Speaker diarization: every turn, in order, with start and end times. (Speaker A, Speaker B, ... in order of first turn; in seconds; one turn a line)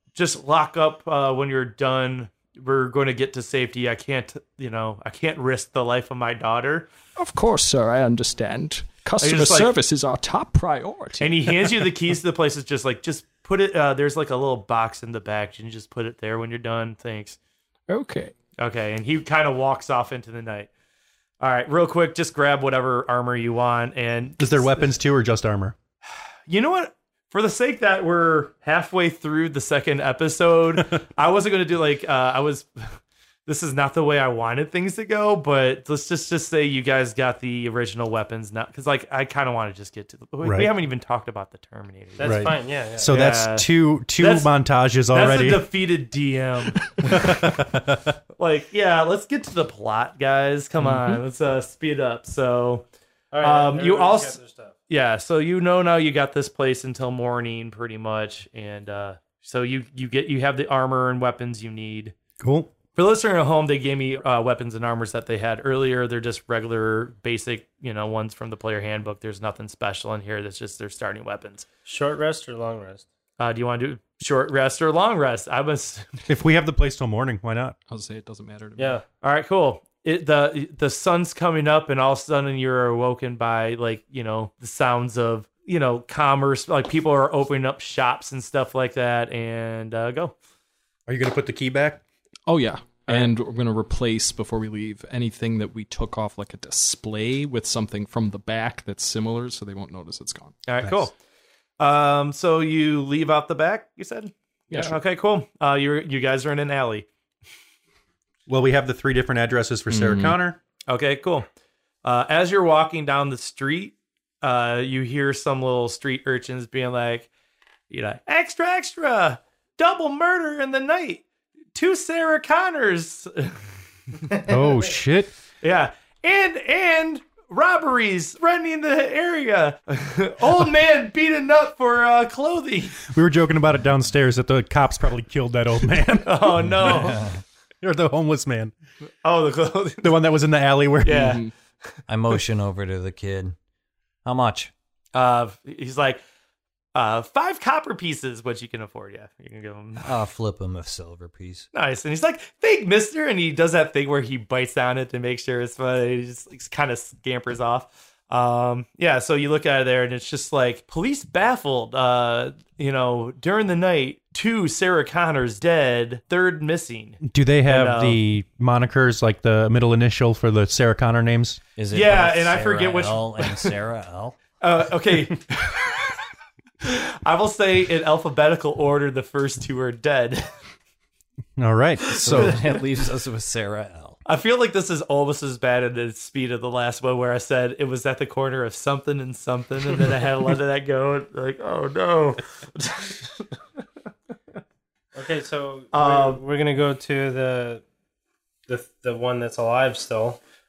Speaker A: 0.1-6.9
Speaker B: 7.2-11.9
Speaker A: 9.2-9.7
Speaker A: 11.2-17.4
Speaker B: 17.9-18.3
Speaker A: 18.6-20.7
Speaker A: 21.4-24.9
Speaker C: 24.4-25.8
Speaker A: 26.5-42.5
Speaker C: 40.4-40.7
Speaker D: 42.2-43.1
Speaker C: 42.2-45.7
Speaker A: 43.0-44.5
Speaker A: 45.1-47.6
Speaker C: 47.0-48.1
Speaker A: 48.4-52.9
Speaker B: 50.8-51.2
Speaker D: 53.3-54.7
Speaker A: 53.4-54.4
Speaker A: 54.9-62.2
Speaker C: 62.4-62.7
Speaker A: 62.9-71.7
Speaker D: 71.9-73.1
Speaker A: 73.4-76.2
Speaker C: 76.2-77.8
Speaker B: 77.9-79.0
Speaker D: 78.8-79.0
Speaker A: 79.2-90.3
Speaker C: 91.1-92.0
Speaker B: 92.5-101.1
Speaker A: 100.7-101.1
Speaker A: 101.8-107.1
Speaker B: 104.7-105.0
Speaker C: 108.5-110.6
Speaker B: 109.9-110.4
Speaker A: 110.9-111.5
Speaker A: 112.0-117.3
Speaker A: 117.9-121.2
Speaker A: 121.7-123.6
Speaker C: 124.4-125.3
Speaker A: 125.6-133.1
Speaker C: 133.1-137.2
Speaker A: 136.2-137.2
Speaker E: 136.8-137.4
Speaker C: 137.8-138.7
Speaker A: 139.2-140.2
Speaker C: 140.0-141.3
Speaker A: 141.1-142.0
Speaker B: 141.1-141.5
Speaker E: 142.1-143.6
Speaker E: 144.2-144.7
Speaker A: 145.1-146.2
Speaker A: 146.9-150.1
Speaker E: 150.0-151.7
Speaker A: 151.7-168.2
Speaker C: 167.2-171.6
Speaker E: 171.8-174.4
Speaker A: 171.9-173.8
Speaker A: 174.6-176.2
Speaker A: 176.8-180.5
Speaker C: 181.6-182.6
Speaker A: 182.1-182.6
Speaker E: 182.2-184.2
Speaker A: 184.2-193.6
Speaker D: 195.1-197.8
Speaker A: 195.9-196.4
Speaker D: 198.7-200.4